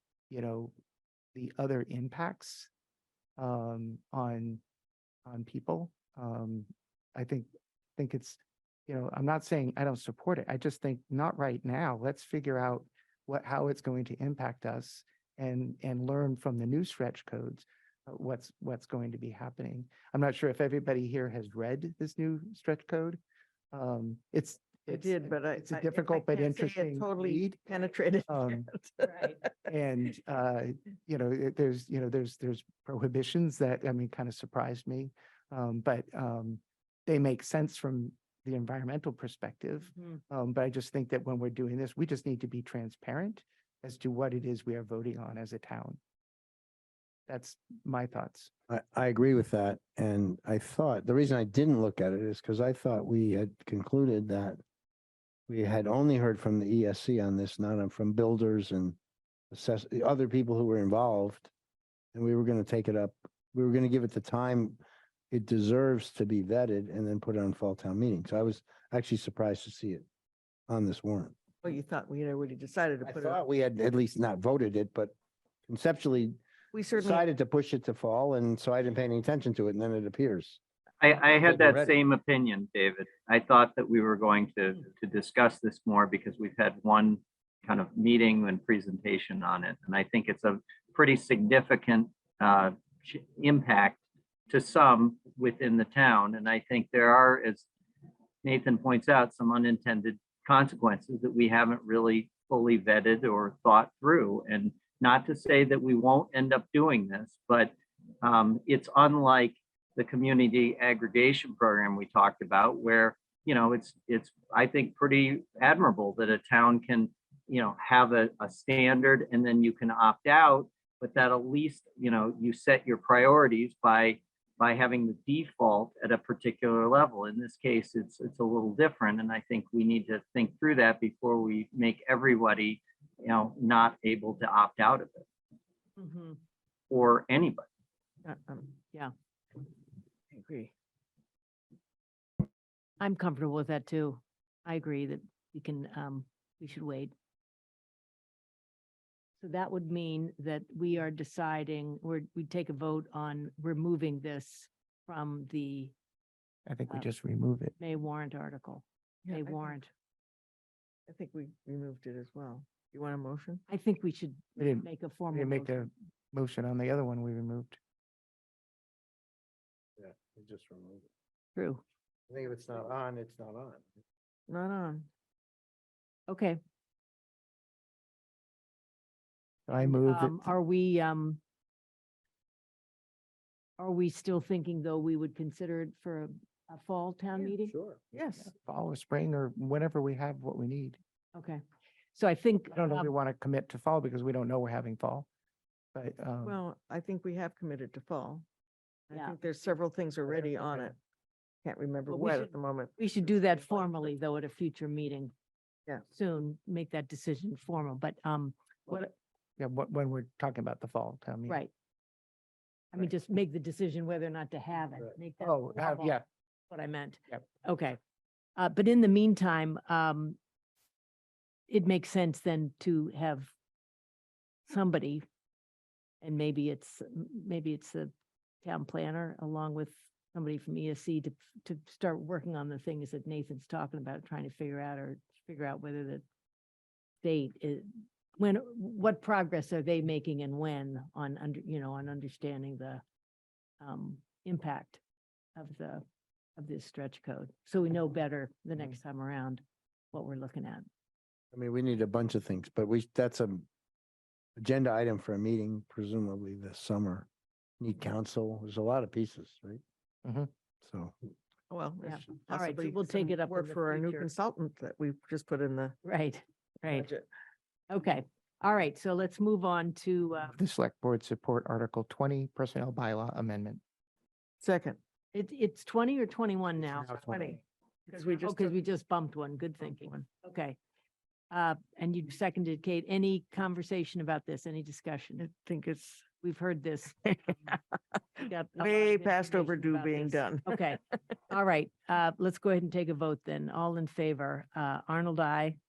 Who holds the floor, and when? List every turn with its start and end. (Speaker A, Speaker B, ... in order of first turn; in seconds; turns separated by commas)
Speaker A: 0.3-0.7, Speaker A: 1.3-2.7, Speaker A: 3.4-4.6, Speaker A: 5.2-23.2, Speaker A: 23.7-27.6, Speaker B: 24.9-29.5, Speaker A: 28.3-28.7, Speaker C: 29.1-29.4, Speaker A: 29.6-46.0, Speaker A: 47.3-48.5, Speaker D: 48.7-54.6, Speaker D: 55.5-59.0, Speaker D: 59.5-61.5, Speaker D: 62.1-64.8, Speaker D: 65.3-70.0, Speaker D: 70.7-71.3, Speaker B: 71.6-73.4, Speaker D: 73.0-75.1, Speaker D: 75.7-76.4, Speaker B: 76.7-77.2, Speaker D: 77.0-80.6, Speaker E: 81.0-97.7, Speaker D: 81.5-81.9, Speaker E: 98.4-135.2, Speaker C: 136.0-136.4, Speaker E: 136.9-137.7, Speaker B: 138.2-138.8, Speaker B: 140.3-140.7, Speaker C: 143.0-147.1, Speaker C: 149.4-155.9, Speaker A: 156.7-157.8, Speaker C: 157.8-159.9, Speaker B: 159.2-159.7, Speaker B: 161.1-163.6, Speaker C: 163.7-165.9, Speaker A: 164.6-167.8, Speaker D: 170.0-171.0, Speaker C: 171.6-171.8, Speaker D: 172.3-173.9, Speaker B: 174.5-175.1, Speaker C: 176.3-176.6, Speaker A: 179.7-180.5, Speaker C: 180.0-181.4, Speaker C: 183.8-187.8, Speaker D: 187.7-188.0, Speaker B: 188.1-188.5, Speaker A: 188.4-191.0, Speaker C: 191.3-191.6, Speaker C: 192.1-193.1, Speaker A: 192.7-195.3, Speaker A: 195.9-196.6, Speaker B: 196.4-198.4, Speaker B: 199.1-200.9, Speaker C: 199.1-199.4, Speaker A: 200.3-200.9, Speaker B: 201.6-203.9, Speaker C: 202.1-205.3, Speaker C: 206.1-209.1, Speaker A: 208.9-211.6, Speaker C: 211.4-211.7, Speaker C: 212.9-218.0, Speaker A: 215.4-216.2, Speaker C: 218.6-220.4, Speaker C: 221.7-223.5, Speaker C: 224.7-225.2, Speaker C: 226.2-228.1, Speaker C: 228.6-236.2, Speaker C: 237.2-243.0, Speaker C: 243.8-245.0, Speaker C: 245.6-246.0, Speaker C: 246.6-250.9, Speaker D: 251.5-253.7, Speaker D: 254.6-257.3, Speaker D: 257.8-259.8, Speaker A: 260.2-260.5, Speaker D: 260.8-261.1, Speaker B: 261.7-266.0, Speaker C: 262.0-264.3, Speaker C: 266.0-267.1, Speaker B: 266.9-267.3, Speaker C: 267.9-270.6, Speaker A: 270.6-273.8, Speaker B: 274.6-275.0, Speaker C: 275.3-277.3, Speaker B: 277.3-278.7, Speaker C: 278.4-280.8, Speaker B: 279.8-280.1, Speaker C: 281.5-285.5, Speaker B: 285.4-286.3, Speaker C: 286.3-287.8, Speaker C: 288.4-295.8, Speaker B: 288.8-290.7